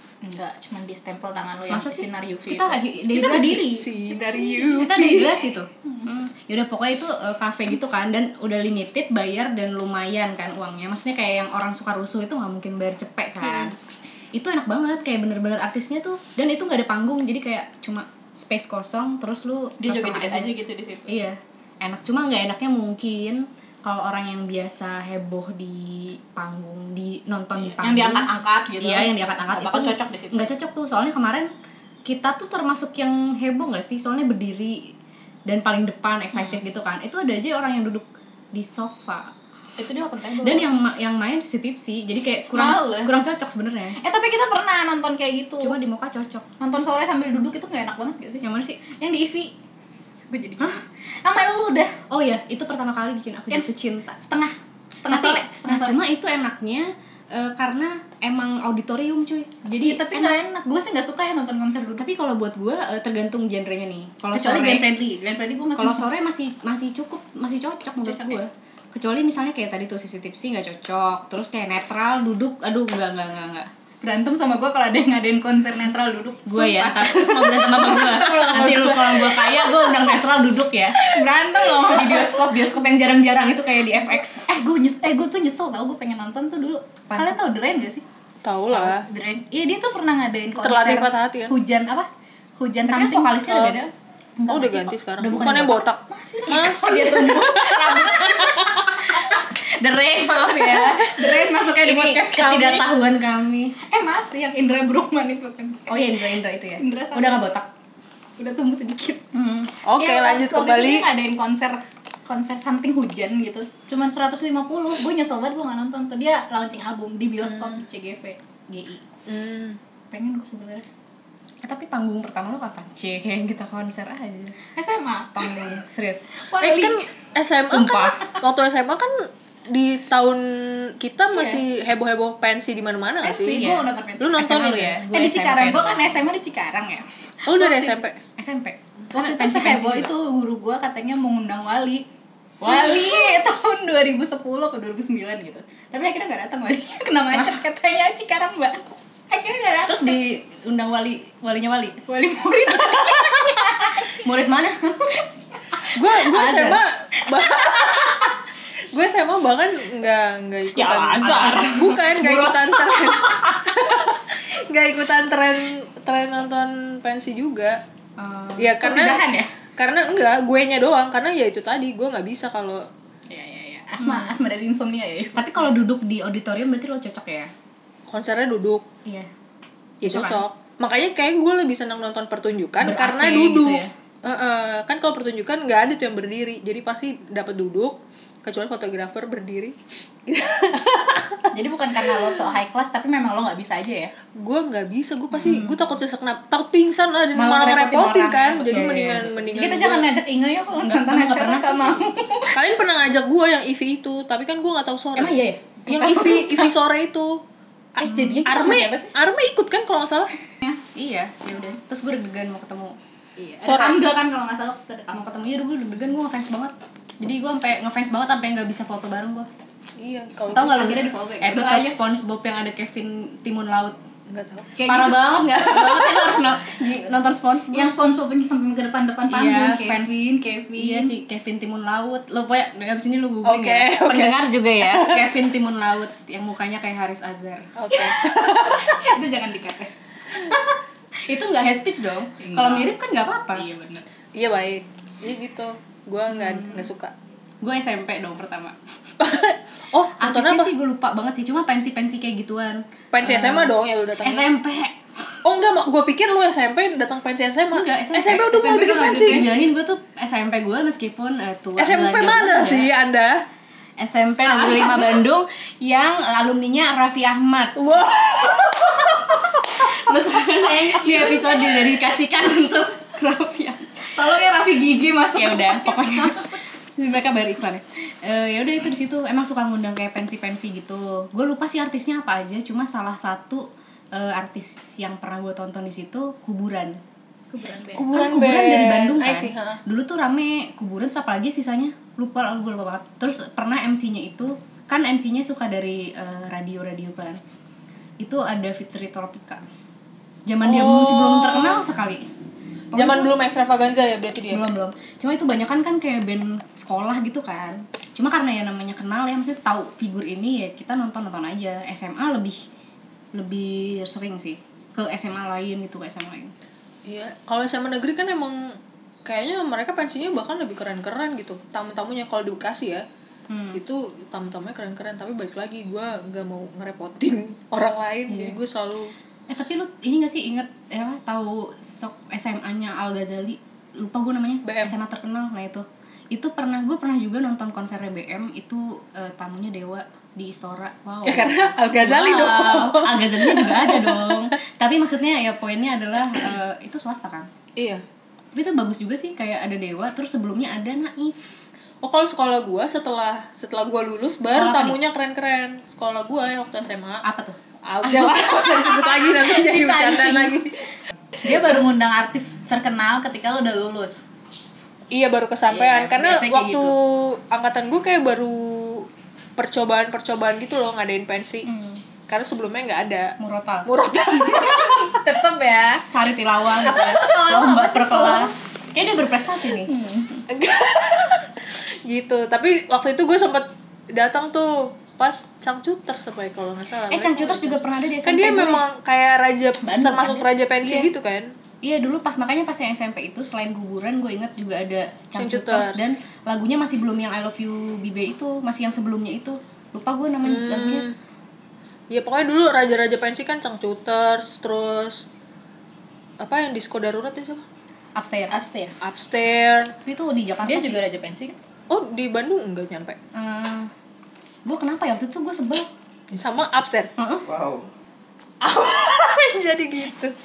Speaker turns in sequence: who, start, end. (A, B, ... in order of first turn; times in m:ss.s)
0:00.2-0:06.1 A
0:01.7-0:03.7 B
0:03.3-0:05.4 C
0:04.8-0:13.8 B
0:13.4-0:13.7 A
0:14.3-0:20.5 B
0:19.8-0:21.2 A
0:21.1-0:28.3 B
0:27.6-0:30.5 A
0:28.8-0:31.5 B
0:32.0-0:34.9 B
0:35.5-0:39.3 B
0:36.3-0:36.6 A
0:39.8-0:40.7 A
0:40.4-0:44.0 B
0:42.5-0:43.2 A
0:44.0-0:45.8 A
0:45.6-0:46.4 B
0:46.6-0:49.5 A
0:48.4-0:48.8 B
0:50.2-0:51.9 A
0:52.1-0:54.2 B
0:53.5-0:56.0 A
0:55.1-1:00.4 B
0:59.8-1:02.1 A
1:02.0-1:04.9 B
1:04.3-1:06.0 A
1:05.8-1:13.7 B
1:08.0-1:08.4 A
1:14.0-1:20.2 A
1:16.5-1:21.1 B
1:20.9-1:22.6 A
1:21.7-1:24.5 B
1:24.1-1:28.0 A
1:27.1-1:27.4 B
1:28.4-1:29.1 C
1:28.7-1:39.4 A
1:30.6-1:31.5 C
1:32.8-1:33.8 B
1:34.5-1:38.7 C
1:35.2-1:35.8 B
1:36.5-1:43.8 B
1:40.3-1:42.9 A
1:43.8-1:47.5 A
1:45.9-1:47.7 B
1:48.4-1:59.0 A
1:49.8-1:51.1 C
1:59.3-1:59.8 C
2:00.1-2:00.9 A
2:01.6-2:04.6 B
2:04.7-2:05.8 A
2:05.3-2:06.4 B
2:06.3-2:07.0 A
2:06.6-2:13.7 C
2:07.6-2:08.2 B
2:11.3-2:11.6 A
2:13.2-2:14.4 A
2:13.5-2:16.2 B
2:14.2-2:15.0 C
2:15.1-2:18.0 A
2:17.4-2:18.2 C
2:18.4-2:20.1 B
2:19.1-2:22.0 A
2:22.6-2:30.2 A
2:22.7-2:23.1 B
2:27.3-2:27.6 B
2:29.8-2:32.0 B
2:32.1-2:34.2 A
2:34.1-2:35.2 B
2:35.9-2:38.3 C
2:36.0-2:36.8 B
2:37.4-2:38.3 A
2:38.9-2:47.8 C
2:40.7-2:43.9 A
2:41.2-2:41.7 B
2:48.2-2:48.8 B
2:48.6-2:49.2 C
2:48.8-2:49.5 A
2:49.8-2:52.8 C
2:53.3-2:55.4 A
2:54.0-2:54.3 B
2:55.3-2:57.5 B
2:58.1-2:58.8 C
3:00.0-3:11.5 C
3:00.0-3:00.4 B
3:02.8-3:03.9 B
3:11.5-3:14.1 A
3:14.4-3:20.1 C
3:15.3-3:15.7 A
3:17.3-3:22.6 A
3:18.7-3:19.3 B
3:20.8-3:22.0 B
3:22.5-3:27.4 C
3:25.1-3:26.5 B
3:25.9-3:26.7 A
3:28.0-3:30.3 C
3:28.0-3:29.1 A
3:30.9-3:33.0 B
3:33.4-3:35.4 A
3:33.6-3:34.0 C
3:35.1-3:39.5 B
3:40.0-3:40.8 C
3:40.5-3:42.0 A
3:40.5-3:44.0 B
3:44.3-3:44.8 C
3:44.8-3:46.2 A
3:44.8-3:47.9 B
3:47.7-3:51.1 A
3:49.3-3:57.7 B
3:53.4-3:55.2 C
3:57.8-3:59.0 C
3:57.9-3:59.9 A
4:00.3-4:03.7 B
4:02.4-4:02.9 A
4:03.5-4:04.0 A
4:04.3-4:07.1 C
4:06.3-4:06.8 B
4:07.6-4:08.8 B
4:09.2-4:10.7 C
4:10.2-4:15.0 B
4:13.1-4:14.5 C
4:15.4-4:19.4 C
4:17.7-4:22.9 B
4:18.4-4:19.6 A
4:21.8-4:23.4 C
4:24.0-4:27.8 B
4:24.4-4:25.2 A
4:27.8-4:29.7 C
4:29.8-4:34.1 B
4:30.9-4:31.7 A
4:34.2-4:36.5 A
4:35.4-4:47.0 B
4:47.5-4:48.1 A
4:47.9-4:49.8 C
4:48.1-4:57.4 B
4:58.2-4:59.6 B
5:00.4-5:02.3 B
5:00.6-5:01.9 C
5:02.9-5:03.4 B
5:02.9-5:04.7 C
5:04.5-5:12.6 B
5:13.3-5:16.5 B
5:17.0-5:23.0 C
5:23.5-5:23.8 B
5:23.7-5:29.1 C
5:28.3-5:28.6 B
5:29.5-5:47.5 B
5:34.6-5:34.9 C
5:41.2-5:44.5 C
5:47.8-5:48.0 C
5:48.5-5:51.5 B
5:52.0-5:57.2 C
5:54.4-5:55.0 B
5:57.2-5:57.6 B
5:57.8-6:00.7 C
5:58.0-6:00.7 A
6:01.4-6:04.2 A
6:05.1-6:11.7 C
6:05.7-6:06.9 A
6:12.3-6:15.2 C
6:13.4-6:13.9 B
6:14.5-6:16.1 A
6:16.1-6:19.9 B
6:16.8-6:18.6 A
6:19.7-6:20.4 A
6:20.5-6:31.5 C
6:27.1-6:28.8 B
6:29.8-6:30.5 A
6:30.8-6:31.1 B
6:31.8-6:41.0 B
6:35.3-6:36.1 C
6:40.4-6:41.1 C
6:42.1-6:45.3 C
6:46.4-6:47.6 C
6:48.1-6:48.5 B
6:48.5-6:49.0 A
6:49.0-6:49.9 C
6:50.0-6:51.0 B
6:50.6-6:51.6 A
6:51.9-6:53.2 C
6:53.3-6:53.9 B
6:54.6-6:55.9 B
6:56.3-6:57.1 C
6:57.2-6:57.4 B
6:57.5-6:57.8 A
6:58.6-7:00.3 C